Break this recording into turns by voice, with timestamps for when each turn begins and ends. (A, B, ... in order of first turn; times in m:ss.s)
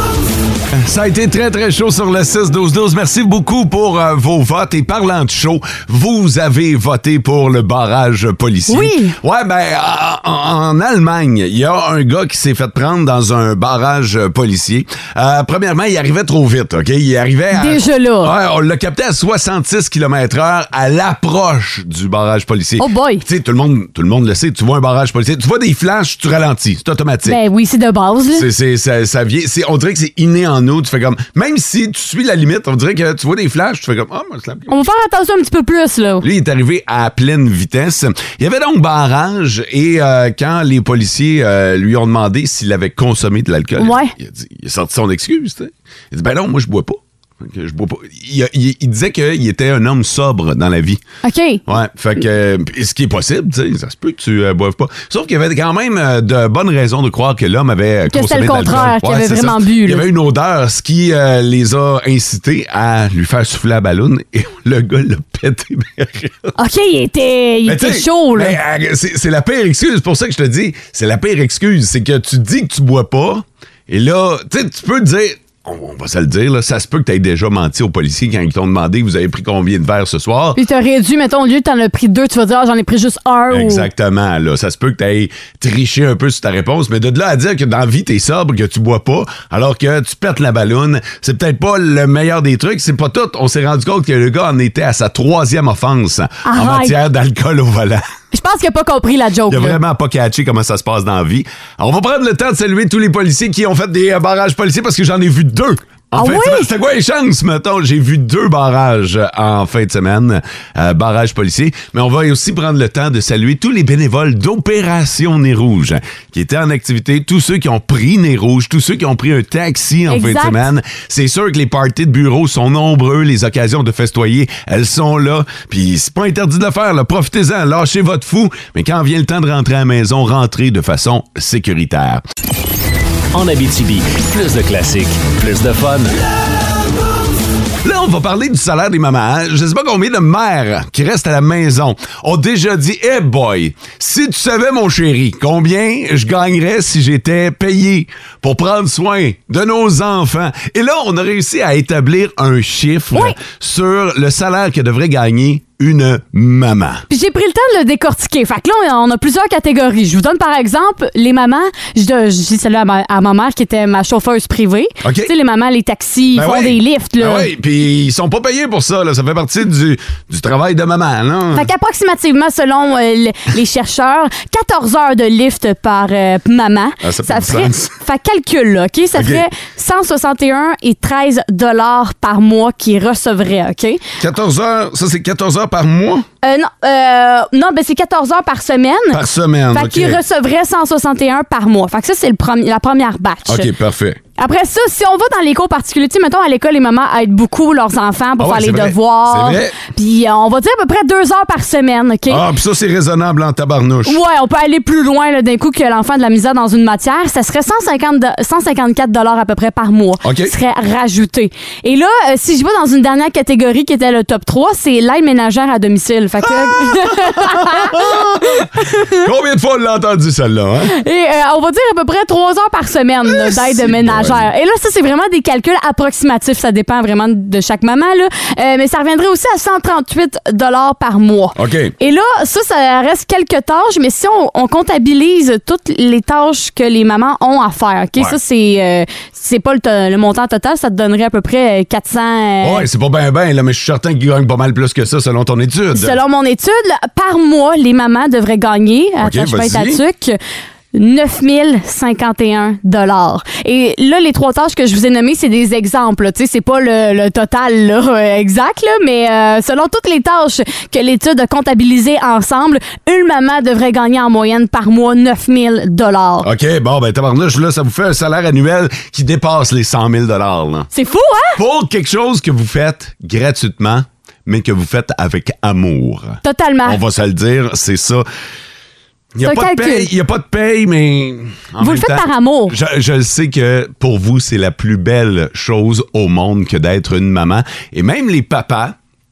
0:00.8-0:27.4 A
0:08.7-0:09.2 B
0:17.5-0:18.3 B
0:22.8-0:23.2 B
0:27.2-0:28.5 B
0:28.3-0:34.8 A
0:34.7-0:36.3 B
0:36.2-0:51.0 A
0:43.8-0:44.1 B
0:51.2-0:51.6 B
0:51.7-1:06.5 A
0:58.1-1:00.0 B
1:06.6-1:08.6 B
1:07.6-1:20.6 A
1:20.6-1:23.9 B
1:23.5-1:38.0 A
1:36.4-1:37.0 B
1:38.3-1:39.8 B
1:39.5-2:12.2 A
1:46.2-1:46.7 B
2:00.1-2:00.6 B
2:13.3-2:16.1 C
2:17.8-2:37.0 A
2:37.1-2:47.5 B
2:45.0-2:45.3 A
2:46.4-2:51.7 A
2:51.5-3:04.0 B
2:57.0-2:58.0 A
2:59.2-2:59.5 A
3:04.2-3:06.3 A
3:06.4-3:09.2 B
3:09.1-3:10.2 A
3:09.7-3:13.7 B
3:13.5-3:14.2 A
3:14.4-3:22.4 B
3:18.4-3:19.8 A
3:22.3-3:24.2 A
3:24.0-3:39.2 B
3:30.2-3:30.5 A
3:36.9-3:41.0 A
3:40.9-4:02.9 B
3:43.3-3:44.5 A
3:51.6-3:52.0 A
4:02.6-4:06.2 A
4:05.9-4:10.4 B
4:09.2-4:10.0 A
4:10.9-4:26.5 B
4:26.4-4:30.9 A
4:30.9-4:31.6 B
4:31.6-4:38.3 A
4:36.4-4:37.0 B
4:39.3-4:49.0 A
4:39.4-4:40.1 B
4:41.8-4:42.8 B